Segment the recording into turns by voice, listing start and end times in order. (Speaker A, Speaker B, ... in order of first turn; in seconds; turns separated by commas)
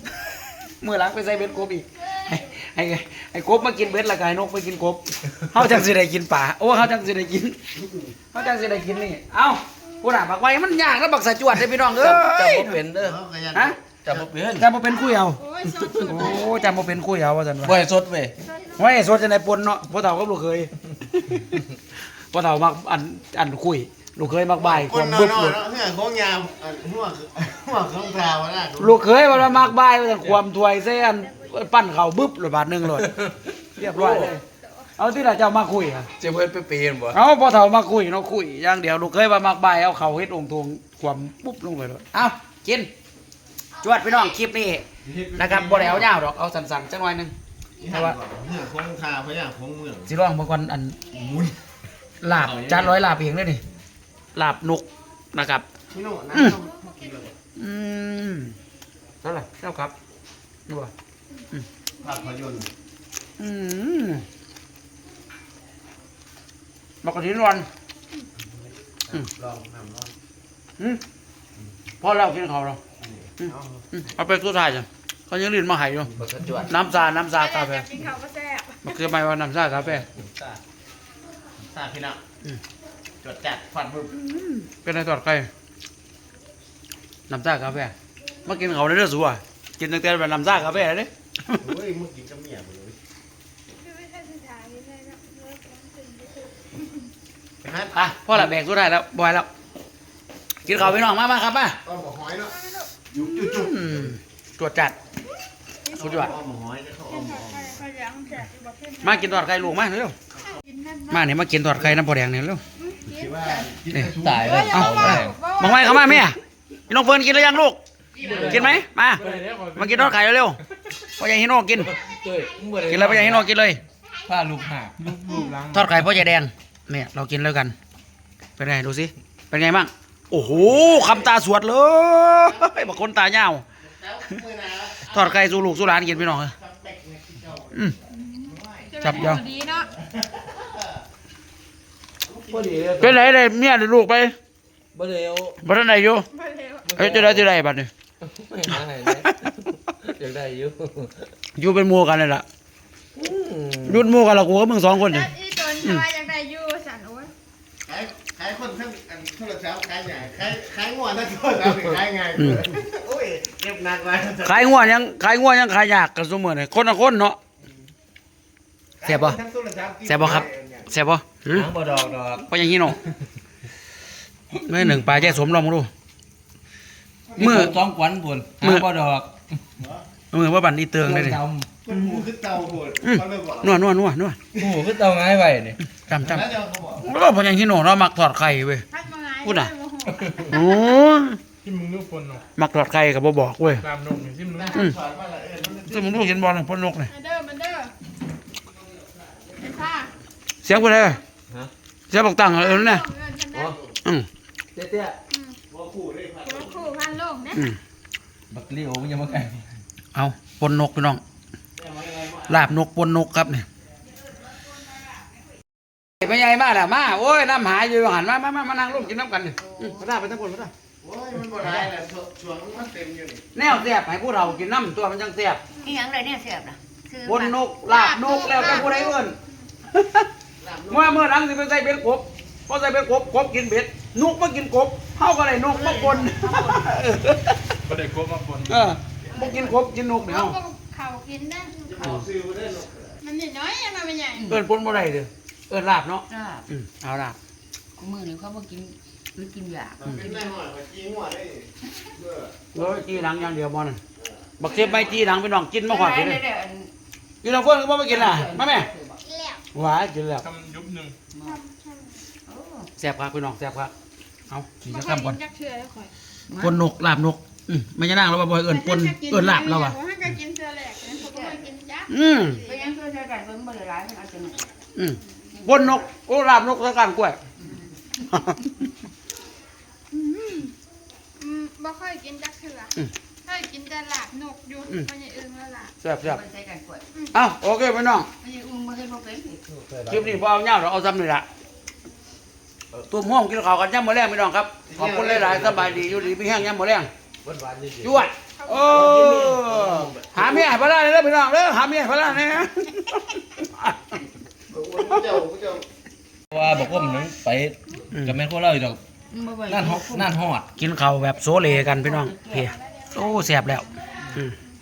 Speaker A: 0.3-7.6, Speaker B: 7.8-8.1, Speaker A: 8.3-12.8, Speaker C: 11.9-13.2, Speaker B: 13.0-13.8, Speaker A: 13.5-13.8, Speaker C: 14.1-14.7, Speaker A: 14.6-17.8, Speaker D: 15.4-16.6, Speaker C: 17.6-18.4, Speaker A: 18.8-21.6, Speaker A: 22.3-25.6, Speaker B: 24.6-29.0, Speaker A: 28.8-33.1, Speaker C: 33.0-34.3, Speaker A: 33.8-34.4, Speaker A: 35.0-36.1, Speaker C: 36.2-37.2, Speaker A: 37.1-42.9, Speaker A: 43.8-44.9, Speaker B: 45.0-46.1, Speaker A: 45.4-47.3, Speaker B: 47.8-50.1, Speaker A: 47.9-48.2, Speaker A: 50.1-51.0, Speaker B: 51.1-51.6, Speaker A: 52.2-53.6, Speaker B: 52.3-53.0, Speaker A: 54.4-55.7, Speaker B: 55.9-57.4, Speaker A: 57.6-58.6, Speaker A: 59.2-59.9, Speaker B: 62.0-62.7, Speaker A: 63.4-64.2, Speaker A: 67.0-67.7, Speaker B: 69.1-70.1, Speaker A: 72.0-72.8, Speaker B: 73.0-73.9, Speaker A: 73.9-76.1, Speaker C: 76.2-76.7, Speaker A: 76.7-77.9, Speaker D: 77.4-79.0, Speaker A: 78.8-80.1, Speaker B: 81.6-82.2, Speaker B: 83.2-84.2, Speaker A: 84.1-85.5, Speaker A: 87.3-87.9, Speaker A: 88.5-91.6, Speaker B: 91.6-93.0, Speaker D: 93.8-96.5, Speaker B: 97.6-98.4, Speaker A: 97.9-99.5, Speaker A: 100.6-101.8, Speaker B: 101.8-102.6, Speaker B: 103.1-104.1, Speaker A: 103.2-105.0, Speaker D: 105.9-106.2, Speaker B: 106.0-107.8, Speaker A: 106.0-106.3, Speaker D: 107.1-109.5, Speaker A: 109.0-110.2, Speaker D: 110.7-111.2, Speaker A: 111.1-112.6, Speaker D: 112.8-116.2, Speaker B: 113.1-114.7, Speaker C: 114.0-115.4, Speaker A: 114.7-121.9, Speaker C: 118.4-119.4, Speaker E: 119.2-120.1, Speaker C: 121.8-123.5, Speaker A: 122.8-123.8, Speaker C: 124.2-125.0, Speaker E: 125.0-126.0, Speaker A: 125.4-127.8, Speaker A: 128.6-133.7, Speaker B: 130.4-131.3, Speaker B: 132.4-132.8, Speaker B: 133.8-137.9, Speaker A: 135.1-136.6, Speaker D: 138.5-139.9, Speaker B: 138.5-139.0, Speaker A: 139.0-139.4, Speaker B: 140.1-140.9, Speaker B: 142.3-143.1, Speaker C: 142.5-143.3, Speaker A: 143.0-144.3, Speaker C: 144.9-145.6, Speaker A: 145.6-146.3, Speaker D: 146.3-146.9, Speaker C: 146.8-147.4, Speaker A: 147.0-147.9, Speaker C: 148.2-151.3, Speaker A: 151.6-152.4, Speaker C: 153.2-154.1, Speaker A: 153.8-156.0, Speaker D: 155.0-157.3, Speaker B: 157.9-164.8, Speaker A: 162.4-162.7, Speaker A: 164.4-167.4, Speaker B: 169.0-170.9, Speaker A: 169.0-169.4, Speaker A: 170.1-171.7, Speaker C: 171.5-172.4, Speaker A: 172.4-173.0, Speaker A: 174.6-175.9, Speaker C: 177.3-179.3, Speaker A: 177.4-177.8, Speaker A: 180.3-182.2, Speaker C: 181.0-181.7, Speaker B: 181.8-183.8, Speaker A: 183.0-184.4, Speaker C: 184.6-185.8, Speaker A: 186.1-186.5, Speaker B: 186.2-187.1, Speaker A: 187.0-188.8, Speaker D: 188.9-190.7, Speaker A: 189.4-189.7, Speaker A: 190.5-191.4, Speaker E: 191.6-192.4, Speaker A: 192.6-193.9, Speaker E: 193.8-194.7, Speaker B: 194.5-196.2, Speaker A: 195.9-197.1, Speaker D: 197.1-197.9, Speaker D: 199.6-200.1, Speaker A: 200.6-201.2, Speaker A: 202.1-203.1, Speaker D: 202.6-203.8, Speaker C: 203.5-203.8, Speaker C: 204.8-205.2, Speaker D: 205.3-205.6, Speaker B: 205.7-206.9, Speaker D: 206.5-207.6, Speaker A: 207.5-207.8, Speaker C: 208.5-209.7, Speaker A: 210.1-211.2, Speaker B: 211.8-212.6, Speaker A: 212.5-213.7, Speaker A: 216.2-220.7, Speaker B: 221.0-223.4, Speaker A: 221.6-221.9, Speaker A: 223.6-225.6, Speaker F: 225.8-227.6, Speaker A: 227.2-229.3, Speaker D: 227.9-229.1, Speaker A: 229.9-230.3, Speaker B: 230.6-231.2, Speaker A: 230.9-237.8, Speaker F: 236.2-236.9, Speaker E: 237.9-238.9, Speaker A: 238.7-240.6, Speaker D: 240.3-241.8, Speaker B: 241.8-243.2, Speaker D: 243.2-244.5, Speaker F: 244.3-244.6, Speaker A: 244.5-247.4, Speaker F: 246.3-246.7, Speaker F: 248.0-250.3, Speaker B: 250.0-253.1, Speaker A: 252.7-254.0, Speaker B: 254.2-254.5, Speaker A: 254.6-256.4, Speaker F: 254.6-255.2, Speaker F: 255.9-256.9, Speaker A: 257.4-258.9, Speaker F: 258.1-259.2, Speaker D: 259.3-259.6, Speaker A: 259.7-260.5, Speaker E: 260.4-261.2, Speaker F: 261.3-261.6, Speaker D: 261.4-262.2, Speaker F: 262.5-262.9, Speaker A: 263.0-263.9, Speaker A: 264.5-265.4, Speaker D: 264.9-266.1, Speaker F: 266.5-266.8, Speaker A: 266.6-270.0, Speaker D: 268.7-272.9, Speaker F: 271.3-271.6, Speaker A: 272.1-272.6, Speaker F: 272.6-274.7, Speaker A: 274.9-277.4, Speaker F: 275.6-276.0, Speaker A: 278.3-278.7, Speaker A: 280.1-280.7, Speaker D: 281.4-286.0, Speaker A: 286.0-286.4, Speaker F: 286.2-287.0, Speaker A: 287.3-288.3, Speaker F: 288.4-289.7, Speaker C: 289.8-290.4, Speaker A: 290.1-291.5, Speaker A: 293.1-297.1, Speaker B: 294.9-296.1, Speaker C: 297.4-298.2, Speaker A: 298.0-304.1, Speaker D: 298.7-299.1, Speaker C: 299.1-300.6, Speaker B: 304.7-305.9, Speaker C: 306.5-309.0, Speaker F: 309.3-310.4, Speaker C: 309.6-310.7, Speaker A: 310.8-314.5, Speaker F: 311.5-312.7